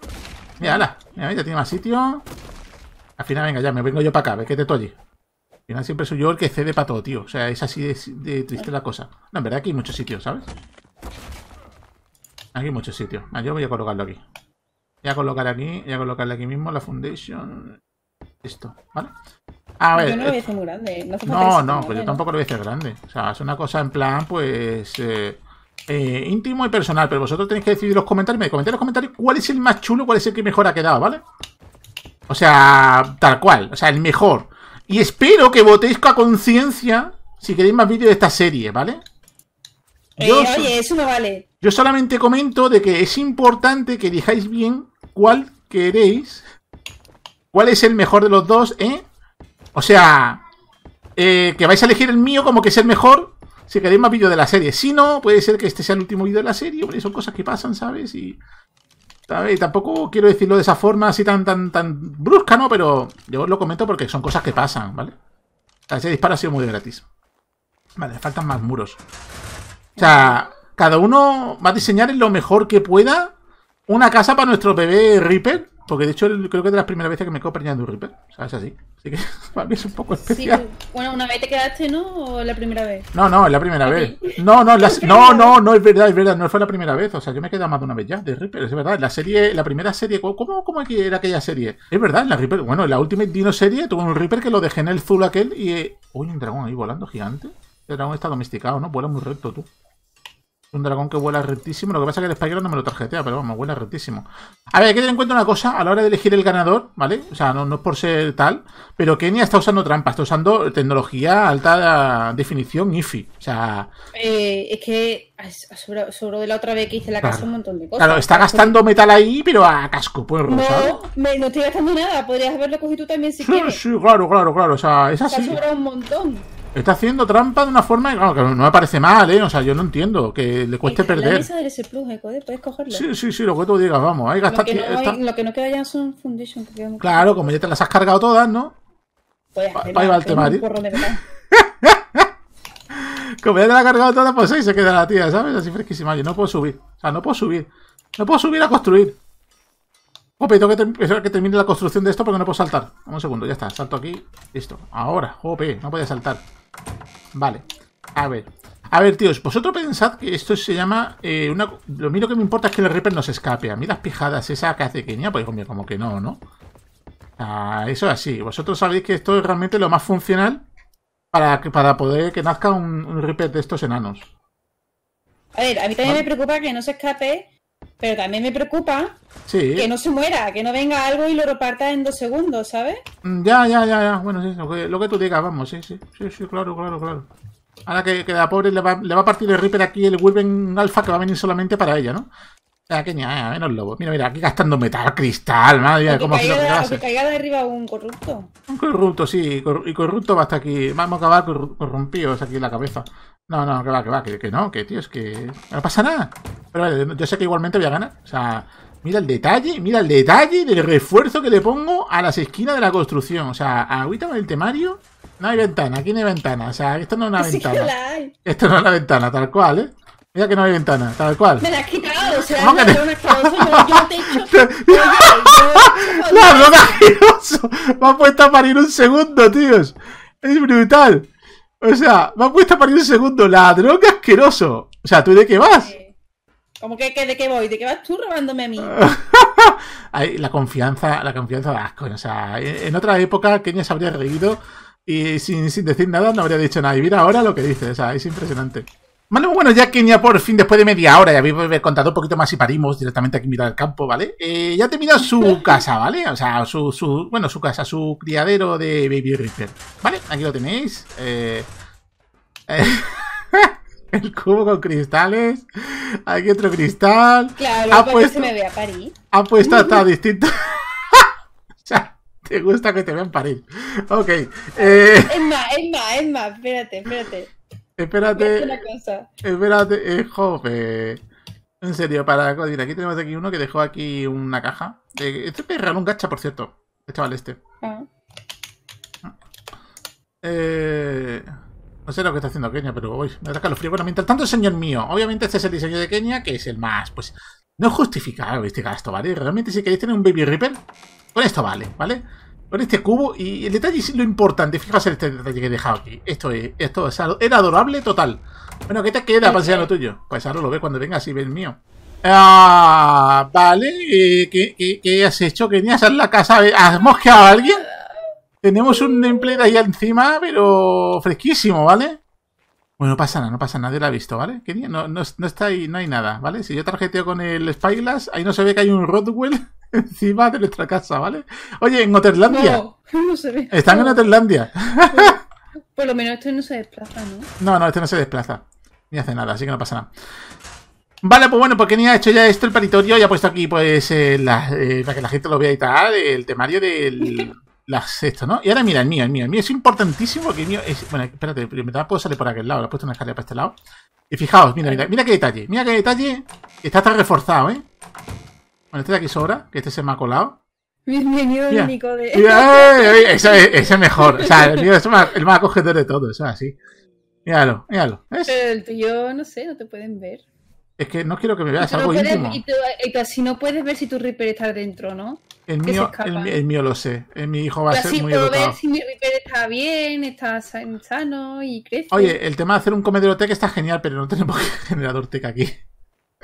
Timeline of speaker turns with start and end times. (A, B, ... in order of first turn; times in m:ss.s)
0:00.6-0:02.2 A
0:03.2-0:05.0 A
0:05.7-0:10.5 A
0:12.5-0:14.2 A
0:15.0-0:17.8 A
0:18.4-0:19.1 A
0:19.8-0:20.4 A
0:20.0-0:22.2 B
0:21.2-0:31.2 A
0:32.3-0:39.0 A
0:40.2-0:41.4 B
0:40.2-0:40.7 A
0:41.6-0:46.4 A
0:47.5-0:49.0 A
0:49.8-0:50.4 A
0:51.2-0:58.4 A
0:59.3-1:05.1 A
1:05.9-1:07.1 A
1:08.0-1:09.0 A
1:10.0-1:10.4 B
1:10.0-1:13.3 A
1:13.9-1:20.6 A
1:20.2-1:23.1 B
1:23.1-1:39.7 A
1:23.8-1:25.6 B
1:40.7-1:53.9 A
1:54.2-1:58.8 B
1:57.2-1:57.5 A
1:58.0-2:01.0 A
2:00.5-2:03.8 B
2:03.4-2:05.6 A
2:05.3-2:06.5 B
2:06.8-2:11.5 A
2:10.8-2:13.0 B
2:12.9-2:15.2 A
2:14.4-2:17.6 B
2:17.0-2:18.8 A
2:19.6-2:21.2 B
2:19.8-2:20.6 A
2:21.5-2:22.3 A
2:22.9-2:29.2 A
2:30.4-2:36.4 A
2:37.4-2:46.4 A
2:47.4-2:50.6 A
2:51.3-2:54.3 A
2:55.6-2:57.5 B
2:58.0-2:59.2 B
2:59.5-2:59.9 A
2:59.8-3:03.0 B
3:03.2-3:07.3 A
3:07.9-3:12.3 A
3:12.9-3:17.0 A
3:16.0-3:18.5 B
3:18.7-3:37.9 A
3:37.4-3:38.3 B
3:38.4-3:41.6 A
3:41.6-3:47.1 B
3:42.4-3:51.3 A
3:51.8-3:55.9 A
3:55.6-3:56.2 B
3:56.8-3:59.0 B
3:58.8-4:21.7 A
4:15.4-4:15.7 B
4:22.7-4:28.5 A
4:27.6-4:30.0 B
4:29.3-4:31.3 A
4:31.8-4:35.4 A
4:34.8-4:37.5 B
4:38.0-4:38.8 A
4:38.3-4:39.3 B
4:39.4-4:41.2 A
4:41.8-4:47.6 A
4:47.8-4:48.1 B
4:50.4-4:51.5 A
4:52.1-5:00.8 A
5:01.3-5:17.8 A
5:09.4-5:09.9 B
5:17.6-5:18.1 B
5:18.6-5:22.2 A
5:18.9-5:19.4 B
5:23.0-5:32.8 A
5:32.5-5:34.4 B
5:33.7-5:35.4 A
5:35.1-5:35.4 B
5:36.0-5:37.5 B
5:37.6-5:40.1 A
5:41.2-5:53.8 A
5:47.2-5:47.5 B
5:54.3-5:57.8 A
5:54.8-5:55.1 B
5:58.9-6:00.6 A
6:01.1-6:04.9 B
6:01.7-6:06.8 A
6:07.5-6:08.5 A
6:08.5-6:10.4 B
6:11.0-6:12.6 A
6:11.8-6:16.6 B
6:15.7-6:18.8 A
6:17.9-6:22.4 B
6:22.1-6:25.8 A